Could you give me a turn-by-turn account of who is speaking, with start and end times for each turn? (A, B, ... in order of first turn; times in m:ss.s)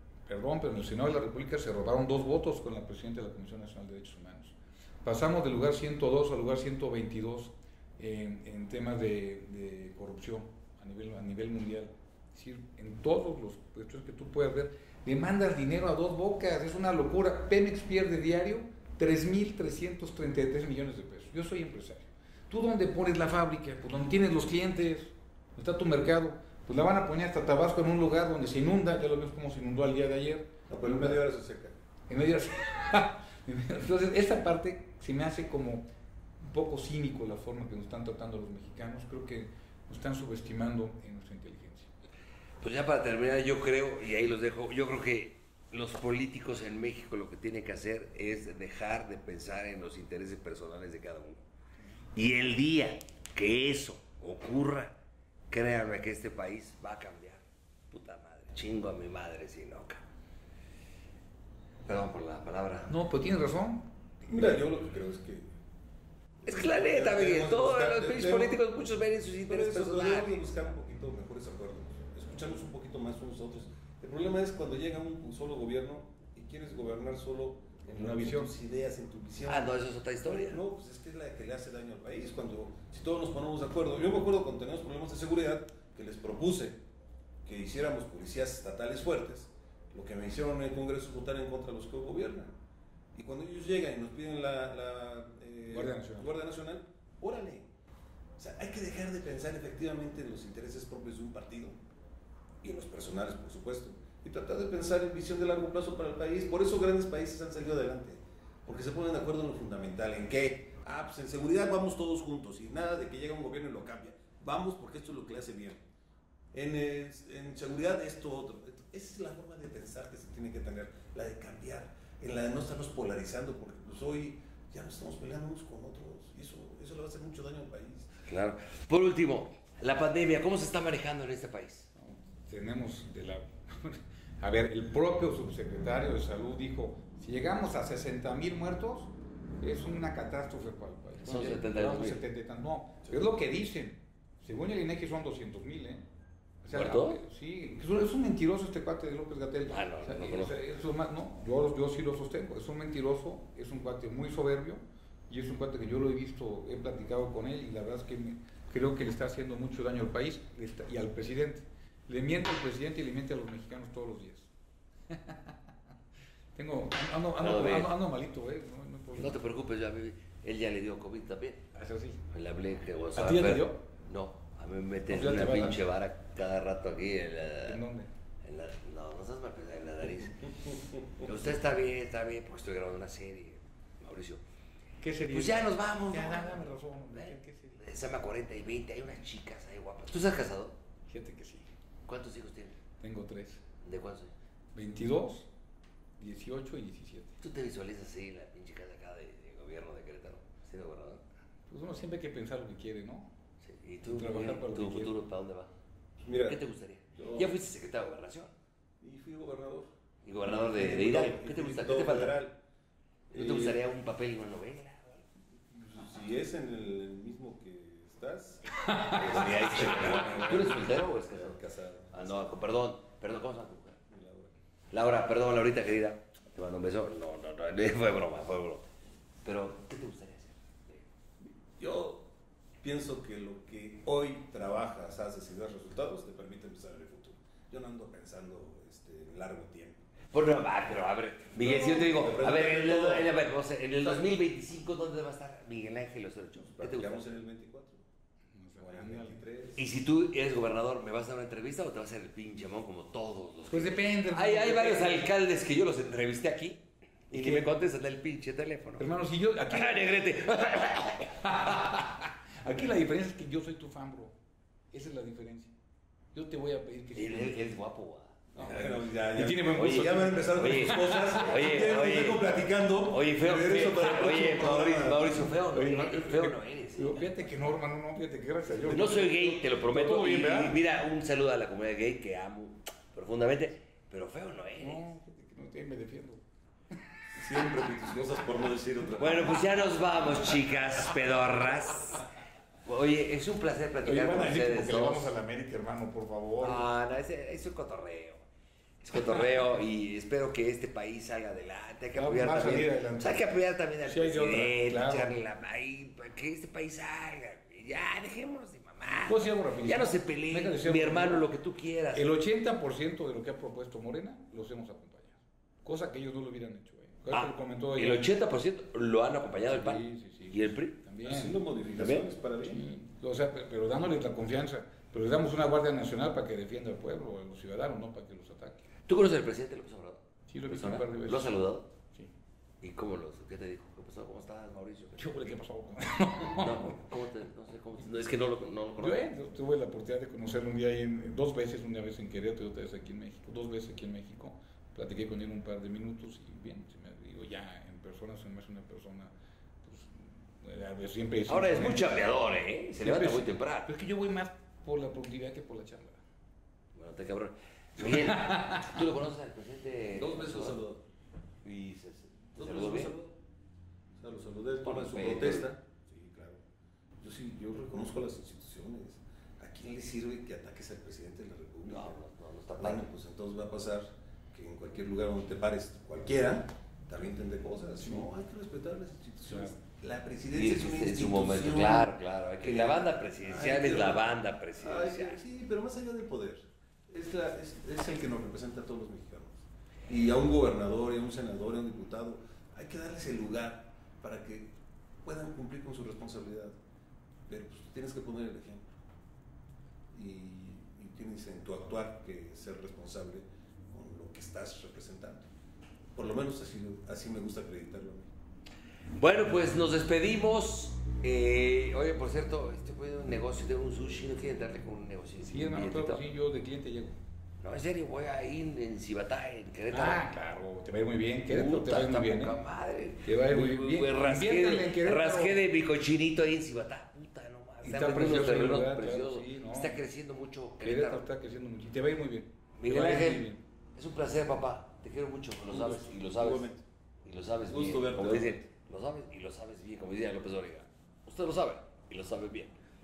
0:00.3-0:31.2 A
0:30.7-0:31.8 B
0:32.1-0:35.9 A
0:36.4-0:41.9 A
0:42.6-0:51.4 C
0:52.2-0:55.0 C
0:55.5-1:00.0 C
1:01.9-1:02.9 C
1:02.9-1:03.9 A
1:04.3-1:05.5 B
1:06.4-1:10.5 C
1:06.5-1:08.6 B
1:09.5-1:19.7 B
1:17.9-1:18.5 A
1:19.5-1:20.6 C
1:20.3-1:26.8 B
1:27.4-1:32.5 B
1:33.2-1:37.7 B
1:35.7-1:36.3 A
1:38.4-1:41.8 B
1:42.6-1:55.8 B
1:56.5-2:08.1 B
2:08.3-2:11.9 C
2:12.0-2:26.1 A
2:21.2-2:22.2 C
2:26.6-2:44.5 A
2:26.7-2:27.2 C
2:29.7-2:30.6 C
2:45.1-2:45.6 A
2:46.6-2:49.4 A
2:47.4-2:47.9 C
2:49.2-2:51.6 C
2:51.7-2:52.2 A
2:52.3-2:57.8 C
2:53.2-2:53.8 A
2:55.1-2:55.8 A
2:57.6-2:58.1 A
2:58.4-3:04.4 C
3:05.0-3:07.8 A
3:05.3-3:10.8 C
3:11.1-3:11.7 A
3:12.1-3:12.8 C
3:13.0-3:13.6 A
3:13.8-3:14.3 C
3:14.7-3:15.5 A
3:16.2-3:17.4 A
3:17.4-3:21.2 C
3:21.7-3:23.3 A
3:23.6-3:25.7 C
3:24.1-3:25.1 A
3:26.2-3:26.6 B
3:26.4-3:28.5 C
3:27.1-3:27.6 B
3:29.0-3:32.6 B
3:30.2-3:32.4 C
3:33.3-3:33.8 B
3:33.4-3:35.2 C
3:35.8-3:42.5 B
3:38.8-3:40.2 A
3:39.1-3:41.6 C
3:42.1-3:44.0 C
3:44.1-3:44.5 B
3:44.9-3:48.9 C
3:49.4-3:51.0 C
3:51.4-4:00.1 B
4:00.3-4:07.3 C
4:01.6-4:03.4 B
4:06.6-4:08.0 B
4:08.6-4:09.4 A
4:08.8-4:09.8 B
4:09.8-4:19.1 C
4:13.7-4:15.3 A
4:17.3-4:17.8 A
4:19.0-4:20.4 A
4:19.7-4:22.1 C
4:21.4-4:24.4 A
4:24.9-4:25.7 A
4:26.3-4:27.8 A
4:27.2-4:28.4 C
4:28.5-4:35.5 B
4:28.6-4:31.6 A
4:29.7-4:32.4 C
4:33.1-4:37.3 C
4:35.7-4:40.8 A
4:38.9-4:45.0 C
4:44.8-4:46.4 A
4:47.4-4:49.6 B
4:49.2-4:52.2 C
4:52.9-4:55.4 C
4:54.0-4:56.8 A
4:56.6-4:58.4 C
4:59.0-5:12.3 C
5:02.2-5:03.5 A
5:04.0-5:05.3 A
5:09.2-5:11.5 A
5:12.1-5:18.4 A
5:17.3-5:21.0 C
5:19.7-5:21.6 A
5:21.2-5:22.9 B
5:22.0-5:22.3 C
5:22.6-5:28.8 A
5:29.1-5:31.9 C
5:30.5-5:31.6 A
5:32.8-5:35.3 C
5:35.2-5:37.0 A
5:36.6-5:39.2 C
5:39.0-5:49.3 A
5:49.8-5:52.3 A
5:51.5-5:53.9 C
5:53.0-5:56.2 A
5:57.0-6:00.8 C
5:58.0-5:59.0 A
6:00.2-6:01.0 B
6:01.6-6:03.1 C
6:02.6-6:03.4 B
6:04.2-6:06.6 B
6:04.8-6:05.7 C
6:07.2-6:12.2 B
6:11.9-6:13.1 C
6:12.8-6:36.8 B
6:18.0-6:18.3 A
6:19.5-6:19.8 A
6:20.5-6:25.4 C
6:37.5-6:39.0 B
6:40.1-6:45.5 B
6:46.2-6:48.3 B
6:49.2-6:56.2 C
6:55.4-6:57.2 A
6:57.6-7:00.2 C
6:59.9-7:02.6 A
7:01.5-7:11.2 C
7:03.2-7:05.6 A
7:07.8-7:10.0 A
7:10.8-7:13.6 A
7:12.8-7:16.7 C
7:15.7-7:16.8 B
7:17.2-7:22.7 C
7:17.6-7:18.6 B